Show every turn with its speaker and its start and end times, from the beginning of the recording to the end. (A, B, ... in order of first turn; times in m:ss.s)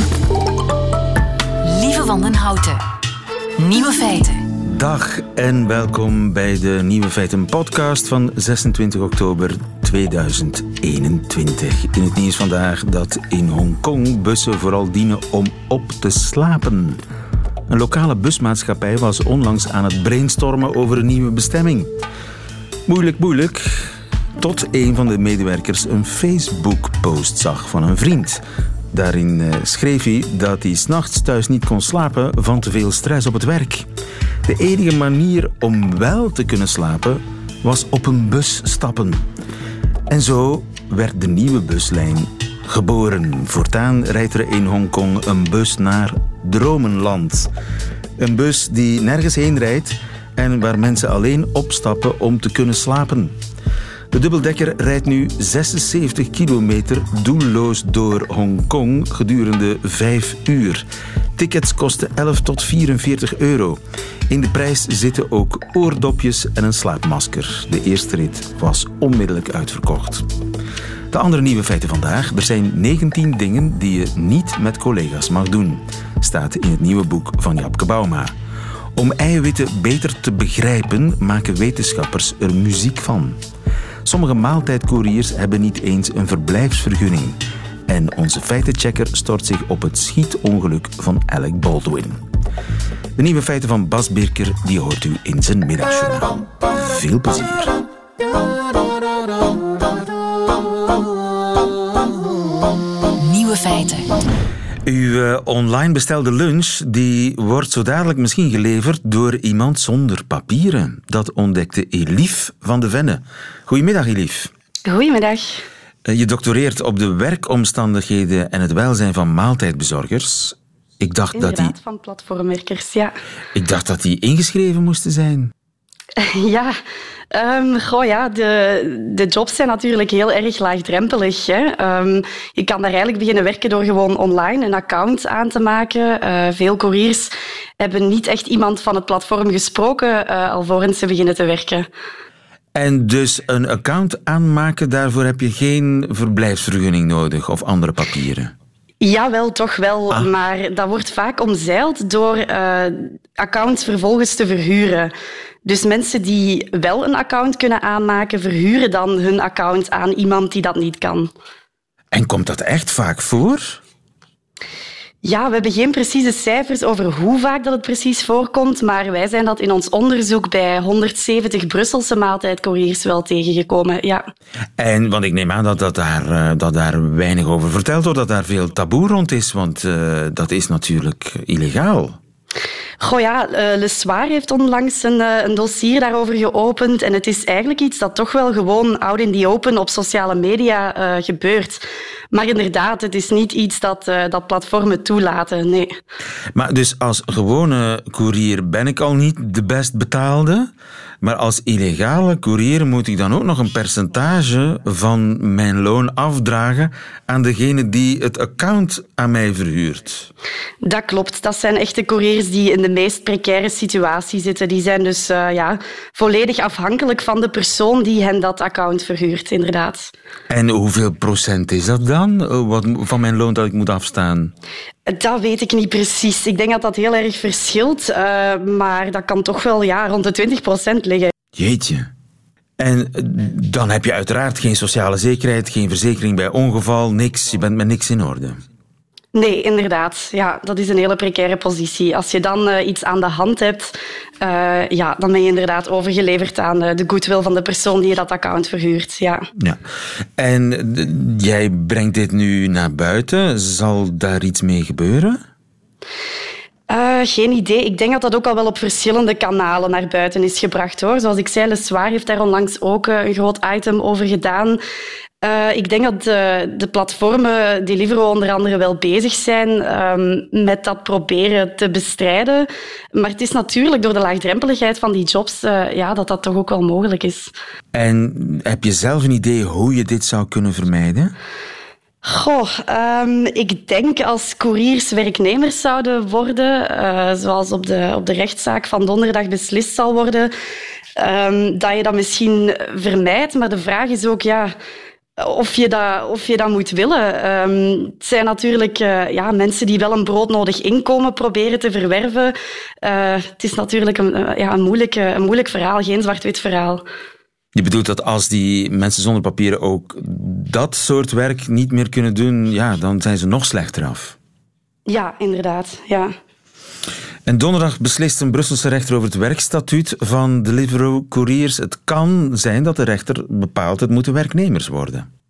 0:01.6-0:02.8 A
0:03.6-0:04.5 A
0:04.6-0:17.0 B
0:17.7-0:21.9 B
0:22.9-0:33.9 B
0:34.4-0:39.2 B
0:40.1-0:47.5 B
0:48.2-0:53.4 B
0:54.1-1:00.9 B
1:01.4-1:10.3 B
1:11.1-1:18.3 B
1:19.0-1:23.4 B
1:24.0-1:32.2 B
1:33.2-1:37.7 B
1:43.2-1:44.1 A
1:44.9-1:54.5 B
1:54.9-1:55.6 C
1:56.1-2:01.7 B
2:01.4-2:03.1 C
2:03.6-2:05.5 B
2:06.2-2:06.7 C
2:07.3-2:21.9 C
2:22.8-2:28.5 B
2:29.0-2:35.1 C
2:35.6-2:41.3 C
2:42.1-2:43.8 B
2:45.2-2:54.3 C
2:54.8-3:02.2 B
3:03.0-3:16.0 C
3:16.5-3:20.7 B
3:21.2-3:30.3 B
3:30.8-3:40.1 C
3:40.5-3:44.5 B
3:45.1-3:51.3 C
3:51.6-3:52.1 B
3:52.8-3:58.6 B
3:59.3-4:09.5 C
4:10.4-4:15.4 B
4:16.9-4:24.8 C
4:25.4-4:37.5 C
4:37.9-4:41.3 B
4:42.2-4:50.5 C
4:51.2-4:54.7 C
4:55.4-5:07.0 C
5:07.8-5:14.4 B
5:15.1-5:16.3 C
5:17.5-5:25.3 B